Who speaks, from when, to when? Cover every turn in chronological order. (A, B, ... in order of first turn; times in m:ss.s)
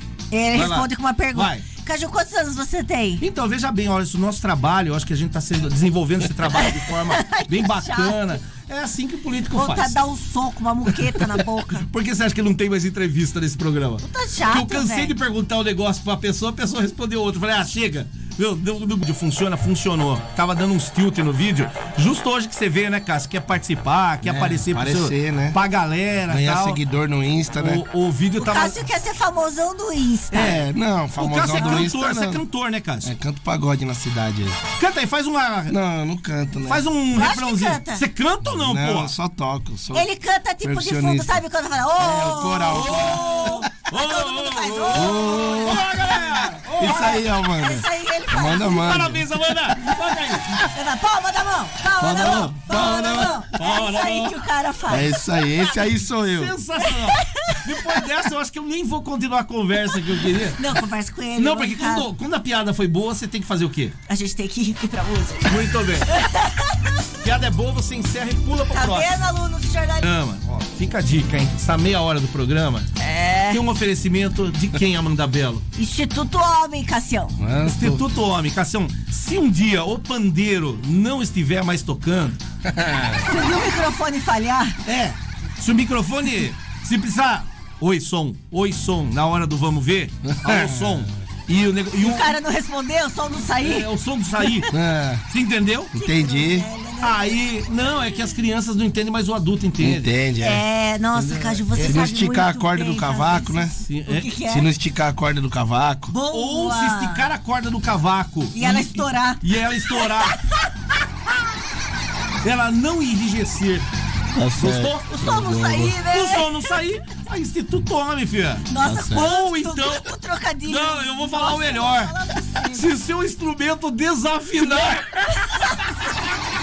0:00.3-0:03.2 A
0:00.5-0:01.6 B
0:03.2-0:10.0 B
0:06.5-0:08.3 A
0:09.5-0:11.9 A
0:10.9-0:26.8 B
0:14.0-0:15.1 A
0:24.2-0:25.6 C
0:26.3-0:27.8 C
0:27.6-0:28.8 B
0:28.4-0:30.6 A
0:30.3-0:30.6 B
0:30.3-0:32.4 C
0:31.2-0:33.1 B
0:31.6-0:31.8 A
0:33.0-0:34.6 C
0:34.8-0:35.8 B
0:35.7-0:36.8 C
0:36.6-0:39.1 B
0:37.1-0:38.0 A
0:38.5-0:40.1 C
0:39.9-0:45.8 A
0:40.6-0:41.4 C
0:42.0-0:43.2 C
0:42.7-0:47.2 B
0:44.9-0:45.9 C
0:46.8-0:49.7 C
0:46.8-0:49.2 A
0:48.7-0:50.7 B
0:50.7-0:55.1 A
0:52.0-0:53.4 C
0:53.5-0:54.4 B
0:54.9-0:56.5 C
0:56.3-1:00.6 B
0:56.8-0:58.0 A
0:59.9-1:02.1 A
1:01.4-1:03.9 B
1:04.1-1:07.0 A
1:05.4-1:06.1 B
1:07.2-1:09.2 B
1:08.7-1:10.1 A
1:10.0-1:12.9 B
1:13.0-1:13.6 A
1:13.5-1:15.6 B
1:15.8-1:17.4 A
1:17.4-1:18.0 C
1:17.6-1:22.4 B
1:22.6-1:23.2 C
1:23.2-1:24.8 A
1:24.8-1:32.3 B
1:30.2-1:31.0 C
1:32.0-1:33.9 A
1:33.6-1:34.7 B
1:34.4-1:34.7 A
1:34.7-1:35.2 C
1:35.3-1:35.9 B
1:35.9-1:38.3 A
1:36.0-1:36.7 C
1:37.0-1:40.1 B
1:39.8-1:40.6 C
1:40.4-1:44.7 A
1:41.1-1:41.6 B
1:41.7-1:43.7 C
1:43.8-1:44.3 B
1:44.4-1:46.1 C
1:46.1-1:47.3 A
1:46.3-1:50.4 B
1:48.5-1:50.7 A
1:52.4-1:53.9 B
1:54.3-1:56.0 C
1:54.5-1:55.1 B
1:55.0-1:56.7 A
1:56.0-2:00.1 B
1:58.7-2:02.9 A
1:58.8-1:59.3 C
2:00.6-2:02.1 B
2:02.7-2:05.8 B
2:04.7-2:06.1 A